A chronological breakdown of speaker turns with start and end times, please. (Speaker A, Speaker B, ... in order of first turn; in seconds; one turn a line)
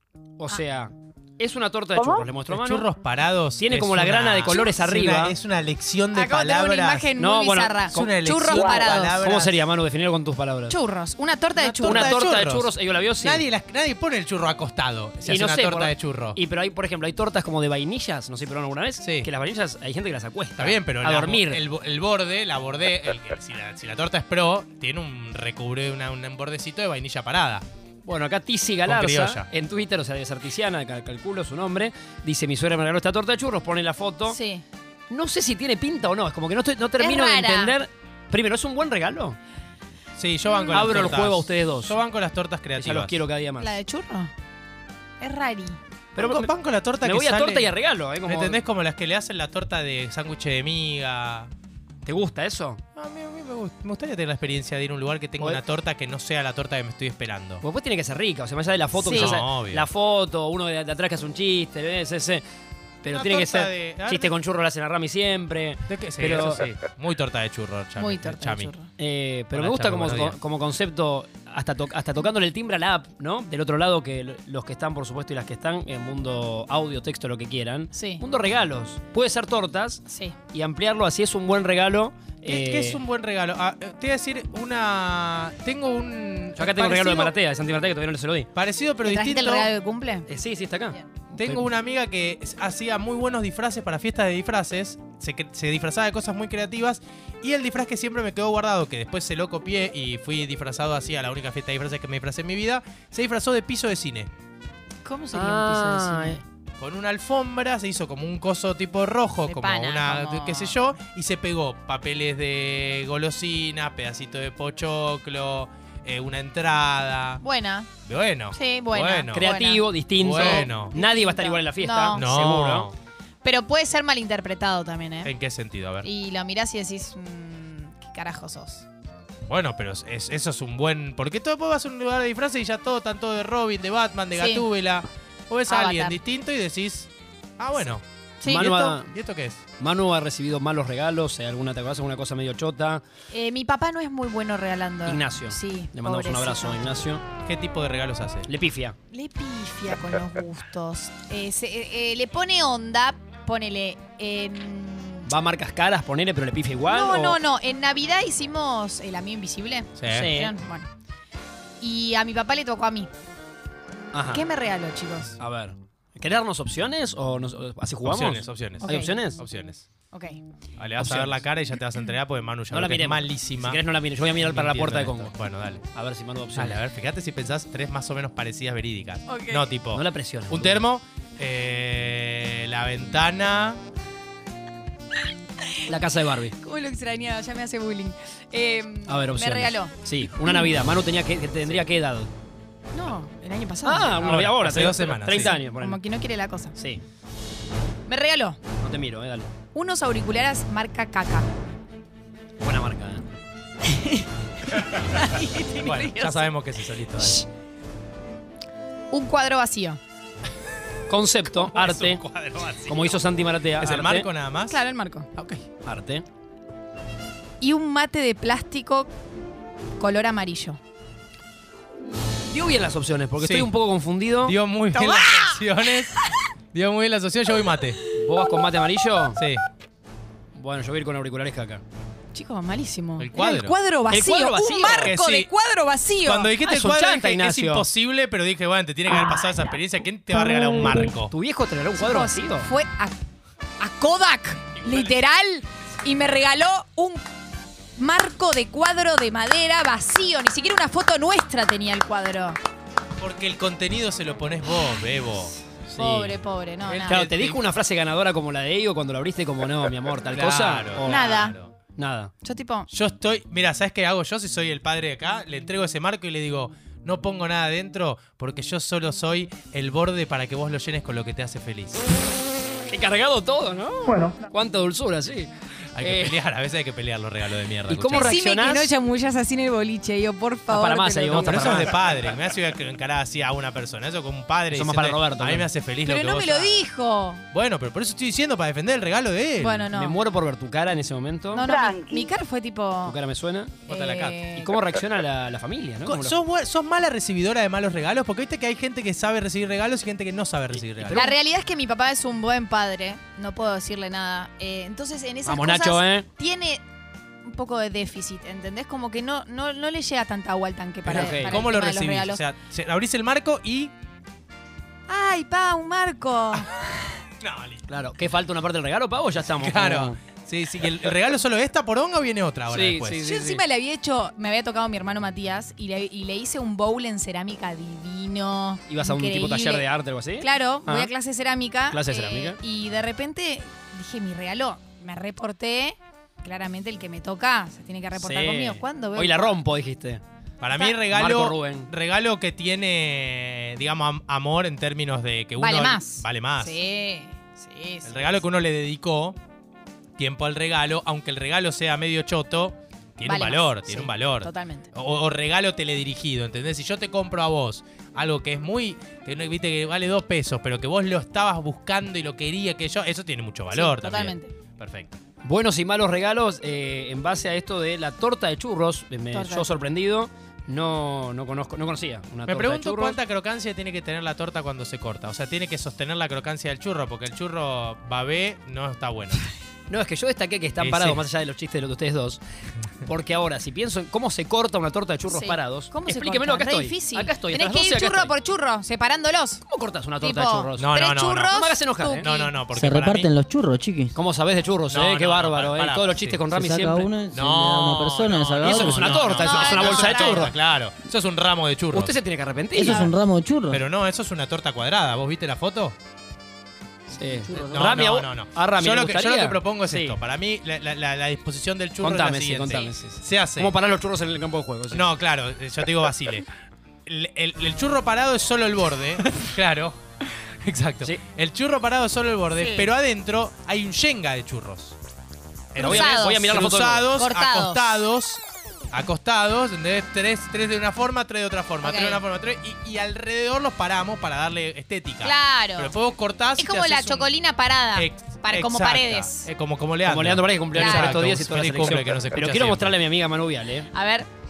Speaker A: 0.4-2.9
Speaker B: 2.5-7.1
Speaker A: 3.6-5.3
Speaker C: 4.5-4.7
Speaker C: 6.1-9.2
Speaker A: 7.2-10.8
Speaker B: 7.9-9.6
Speaker C: 10.7-12.2
Speaker B: 11.6-16.4
Speaker A: 11.8-13.4
Speaker A: 15.2-21.6
Speaker B: 19.0-19.3
Speaker B: 20.6-27.6
Speaker A: 28.0-34.4
Speaker B: 28.8-29.5
Speaker C: 34.3-34.6
Speaker A: 35.1-39.4
Speaker C: 37.0-37.7
Speaker B: 40.2-43.2
Speaker C: 40.5-40.9
Speaker A: 40.7-42.0
Speaker A: 42.8-43.7
Speaker C: 43.6-44.3
Speaker C: 45.2-45.8
Speaker A: 46.1-48.6
Speaker B: 46.2-47.7
Speaker B: 48.2-51.5
Speaker A: 52.0-52.8
Speaker B: 53.0-57.6
Speaker A: 57.6-62.4
Speaker C: 59.0-59.4
Speaker B: 59.1-59.9
Speaker A: 63.0-66.6
Speaker B: 63.1-64.3
Speaker B: 65.9-68.7
Speaker C: 68.0-68.9
Speaker A: 69.0-83.0
Speaker B: 69.5-70.4
Speaker C: 77.9-78.2
Speaker C: 80.1-80.3
Speaker B: 82.4-87.3
Speaker A: 86.6-88.5
Speaker B: 88.5-89.7
Speaker C: 89.0-90.3
Speaker A: 90.3-91.6
Speaker B: 91.3-104.3
Speaker C: 105.0-106.4
Speaker A: 105.3-106.4
Speaker B: 106.8-117.4
Speaker C: 109.5-110.8
Speaker C: 117.4-117.9
Speaker B: 118.0-119.5
Speaker C: 118.5-122.2
Speaker A: 119.3-122.9
Speaker B: 120.2-120.9
Speaker B: 122.1-122.9
Speaker C: 123.4-125.3
Speaker B: 125.2-126.1
Speaker C: 126.0-128.8
Speaker B: 129.5-139.6
Speaker C: 134.3-134.7
Speaker C: 135.7-136.2
Speaker C: 138.4-138.7
Speaker A: 138.5-139.1
Speaker A: 139.8-143.0
Speaker C: 143.3-146.8
Speaker A: 145.1-147.2
Speaker B: 147.4-148.5
Speaker A: 148.5-148.9
Speaker C: 149.1-155.3
Speaker A: 155.3-157.4
Speaker C: 156.9-160.9
Speaker B: 160.0-160.3
Speaker A: 160.1-160.5
Speaker C: 161.8-163.1
Speaker A: 164.1-164.4
Speaker C: 164.3-165.4
Speaker A: 165.4-169.4
Speaker B: 168.0-169.8
Speaker C: 168.8-169.2
Speaker C: 170.1-170.4
Speaker B: 170.8-173.8
Speaker A: 171.0-171.4
Speaker A: 172.7-175.3
Speaker B: 174.4-175.8
Speaker A: 175.9-176.8
Speaker B: 176.5-183.8
Speaker C: 179.3-179.7
Speaker A: 179.9-180.8
Speaker C: 185.6-185.9
Speaker A: 185.9-186.6
Speaker C: 186.6-190.7
Speaker A: 189.1-192.3
Speaker C: 192.9-194.2
Speaker A: 193.8-196.0
Speaker B: 194.2-195.6
Speaker C: 195.7-196.7
Speaker A: 196.8-197.0
Speaker C: 198.1-198.6
Speaker A: 198.8-199.5
Speaker C: 199.7-201.5
Speaker A: 202.6-203.2
Speaker C: 203.8-206.5
Speaker B: 205.7-207.4
Speaker C: 209.1-210.0
Speaker A: 211.1-212.2
Speaker B: 211.5-213.2
Speaker A: 212.9-214.3
Speaker B: 213.8-214.8
Speaker C: 214.7-215.3
Speaker B: 215.3-215.6
Speaker A: 215.8-216.2
Speaker C: 217.6-219.1
Speaker C: 220.0-220.8
Speaker A: 222.5-224.6
Speaker B: 223.4-223.7
Speaker B: 224.4-228.0
Speaker C: 224.9-225.6
Speaker C: 226.2-226.4
Speaker A: 228.1-229.4
Speaker B: 229.3-229.6
Speaker A: 230.5-231.8
Speaker C: 232.3-236.5
Speaker B: 233.2-233.8
Speaker A: 234.1-235.1
Speaker B: 234.8-235.5
Speaker B: 236.2-241.3
Speaker A: 236.6-237.9
Speaker A: 241.3-242.7
Speaker C: 242.0-243.2
Speaker C: 243.8-247.2
Speaker B: 244.8-245.1
Speaker C: 248.0-252.6
Speaker B: 253.2-255.5
Speaker A: 255.9-256.4
Speaker C: 256.0-257.2
Speaker B: 256.8-257.6
Speaker A: 257.1-261.4
Speaker B: 260.3-261.7
Speaker C: 261.0-261.5
Speaker A: 261.9-262.3
Speaker C: 262.4-262.9
Speaker B: 262.9-272.1
Speaker A: 272.9-275.5
Speaker B: 275.9-278.4
Speaker A: 276.0-276.4
Speaker A: 277.9-278.9
Speaker C: 278.1-281.9
Speaker A: 280.7-281.9
Speaker B: 281.4-286.8
Speaker A: 284.7-285.7
Speaker C: 286.0-287.4
Speaker B: 287.5-289.9
Speaker C: 289.6-290.2
Speaker A: 289.9-291.7
Speaker C: 291.5-293.1
Speaker A: 293.1-293.8
Speaker B: 293.9-294.4
Speaker C: 293.9-294.7
Speaker A: 294.5-296.4
Speaker B: 296.0-301.3
Speaker A: 301.0-301.3
Speaker C: 301.1-306.8
Speaker A: 305.4-306.3
Speaker C: 307.4-312.4
Speaker A: 311.1-311.6
Speaker B: 311.1-313.9
Speaker C: 315.1-317.1
Speaker B: 317.4-317.9
Speaker A: 317.9-320.2
Speaker B: 319.5-323.2
Speaker A: 322.7-323.6
Speaker C: 323.2-329.9
Speaker A: 328.9-331.1
Speaker C: 330.4-339.6
Speaker A: 331.9-332.6
Speaker A: 338.2-340.2
Speaker B: 340.6-346.8
Speaker A: 341.1-341.9
Speaker C: 345.6-348.4
Speaker B: 348.1-349.4
Speaker B: 350.2-365.2
Speaker C: 353.2-354.9
Speaker C: 363.7-364.5
Speaker A: 365.4-373.2
Speaker C: 369.3-369.7
Speaker B: 372.5-379.4
Speaker A: 379.9-382.4
Speaker B: 380.8-381.2
Speaker A: 383.0-388.3
Speaker C: 385.3-389.6
Speaker A: 389.6-390.9
Speaker C: 390.2-392.5
Speaker B: 390.8-391.6
Speaker A: 391.5-392.3
Speaker B: 392.2-393.3
Speaker D: 392.7-394.1
Speaker A: 394.1-397.1
Speaker B: 394.9-396.4
Speaker D: 396.5-399.3
Speaker B: 397.3-402.1
Speaker A: 398.6-400.5
Speaker C: 399.4-400.5
Speaker A: 401.9-403.1
Speaker D: 402.7-403.8
Speaker B: 403.7-405.9
Speaker A: 407.1-410.2
Speaker D: 407.4-407.9
Speaker B: 407.6-413.8
Speaker A: 412.0-415.1
Speaker B: 414.9-416.5
Speaker B: 417.1-419.9
Speaker B: 420.6-425.0
Speaker C: 422.6-422.9
Speaker B: 425.7-428.4
Speaker A: 425.8-427.1
Speaker C: 425.8-426.5
Speaker C: 427.1-428.0
Speaker B: 428.9-437.3
Speaker C: 431.8-432.2
Speaker C: 435.2-435.9
Speaker C: 436.6-439.5
Speaker B: 437.9-443.0
Speaker A: 440.1-443.9
Speaker C: 440.7-441.2
Speaker C: 443.9-444.3